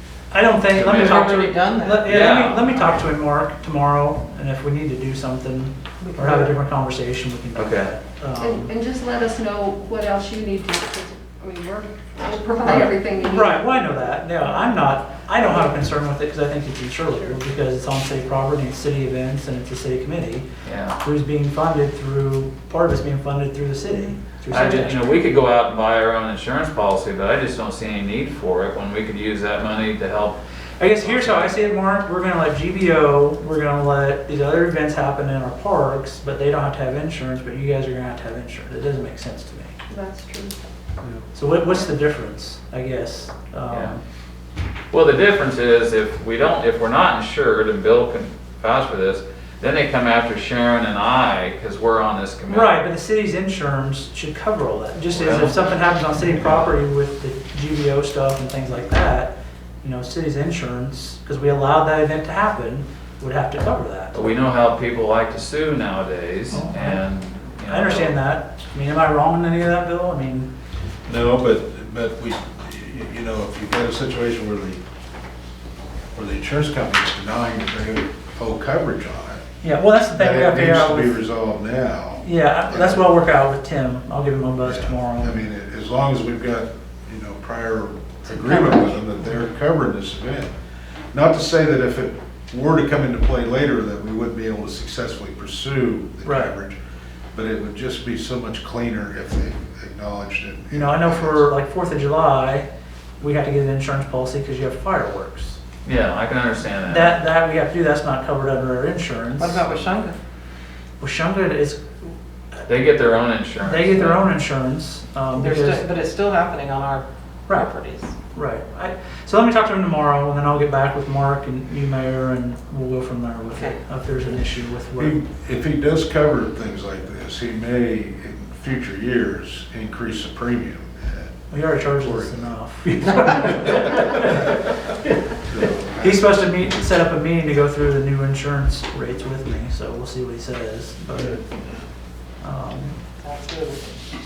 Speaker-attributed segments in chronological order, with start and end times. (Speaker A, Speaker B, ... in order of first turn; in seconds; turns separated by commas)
Speaker A: 0.3-8.7, Speaker B: 0.7-1.3, Speaker C: 0.8-3.0, Speaker B: 2.0-2.7, Speaker C: 6.0-6.5, Speaker B: 7.5-7.9, Speaker D: 8.3-13.7, Speaker A: 12.6-20.5, Speaker B: 20.6-21.0, Speaker A: 21.0-25.2, Speaker B: 24.5-30.4, Speaker A: 30.8-39.7, Speaker B: 31.0-31.6, Speaker D: 39.9-40.6, Speaker A: 41.3-44.0, Speaker B: 43.7-43.9, Speaker B: 44.9-52.8, Speaker A: 52.5-64.2, Speaker B: 55.1-55.6, Speaker B: 64.1-68.2, Speaker A: 66.5-67.0, Speaker A: 67.7-70.5, Speaker E: 71.1-74.8, Speaker E: 76.1-79.4, Speaker A: 79.6-81.2, Speaker E: 80.1-83.0, Speaker A: 82.2-85.4, Speaker E: 84.6-90.5, Speaker E: 91.1-96.8, Speaker A: 96.2-96.5, Speaker E: 97.3-101.5, Speaker A: 100.7-102.7, Speaker A: 103.2-105.6, Speaker B: 105.8-107.2, Speaker A: 106.9-109.6, Speaker C: 109.4-110.2, Speaker A: 111.0-111.8, Speaker B: 112.7-114.3, Speaker A: 113.6-115.8, Speaker C: 115.3-118.1, Speaker A: 118.3-125.2, Speaker C: 123.5-123.8, Speaker E: 124.3-132.5, Speaker A: 131.5-134.7, Speaker E: 133.3-134.2, Speaker E: 135.5-136.2, Speaker A: 136.0-141.4, Speaker A: 142.4-143.0, Speaker C: 143.2-144.0